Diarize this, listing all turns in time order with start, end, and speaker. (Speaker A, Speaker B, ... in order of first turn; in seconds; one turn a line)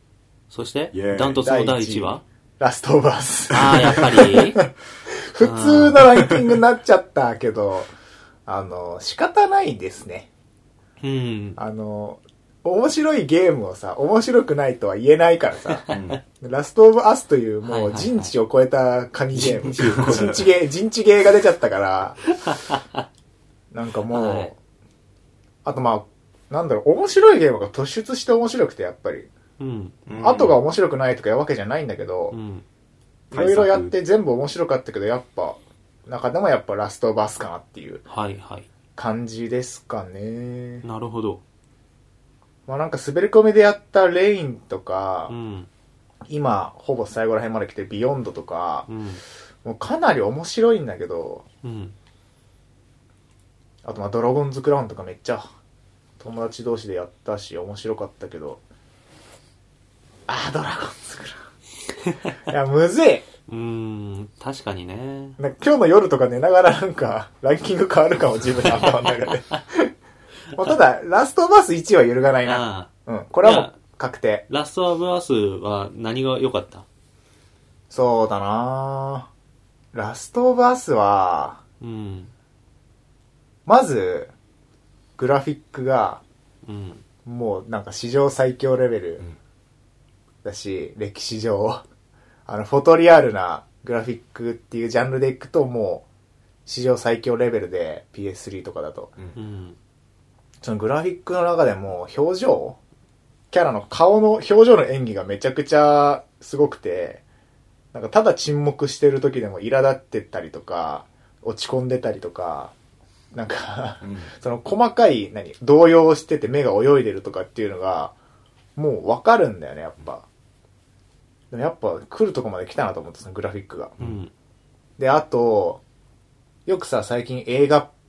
Speaker A: 0.5-2.2
Speaker B: 0.9-1.4
Speaker C: 1.4-7.9
Speaker A: 3.5-4.6
Speaker A: 5.4-6.0
Speaker C: 8.5-10.3
Speaker A: 11.0-11.6
Speaker C: 11.6-22.3
Speaker A: 15.8-16.1
Speaker B: 15.9-16.2
Speaker A: 17.6-18.3
Speaker A: 19.3-20.4
Speaker B: 19.8-20.4
Speaker A: 22.4-23.0
Speaker C: 23.7-24.6
Speaker A: 24.1-24.5
Speaker C: 25.6-29.3
Speaker A: 29.6-30.0
Speaker B: 30.1-30.6
Speaker C: 30.2-32.4
Speaker A: 32.3-32.6
Speaker B: 33.3-33.9
Speaker C: 33.3-38.0
Speaker A: 38.1-38.7
Speaker C: 39.0-40.9
Speaker A: 40.8-41.4
Speaker C: 42.7-45.3
Speaker A: 45.3-45.7
Speaker C: 46.3-48.9
Speaker A: 48.9-49.2
Speaker C: 49.6-51.5
Speaker A: 51.6-52.0
Speaker C: 53.8-55.5
Speaker C: 56.2-58.6
Speaker C: 60.3-61.5
Speaker C: 62.5-63.3
Speaker A: 63.5-65.4
Speaker C: 65.4-69.9
Speaker C: 70.5-74.5
Speaker A: 72.5-72.9
Speaker A: 73.4-73.8
Speaker A: 74.5-76.8
Speaker C: 77.9-79.3
Speaker C: 79.9-81.6
Speaker A: 81.8-82.3
Speaker C: 83.7-84.3
Speaker C: 85.2-86.2
Speaker A: 86.7-87.0
Speaker C: 87.2-89.2
Speaker C: 90.4-91.8
Speaker C: 92.5-96.1
Speaker C: 96.7-99.2
Speaker A: 99.3-99.8
Speaker C: 100.6-102.8
Speaker C: 103.5-107.2
Speaker C: 107.9-112.7
Speaker C: 113.3-118.1
Speaker B: 114.0-114.3
Speaker C: 118.8-120.3
Speaker C: 121.5-124.0
Speaker A: 124.0-124.3
Speaker C: 125.0-125.8
Speaker C: 126.7-127.9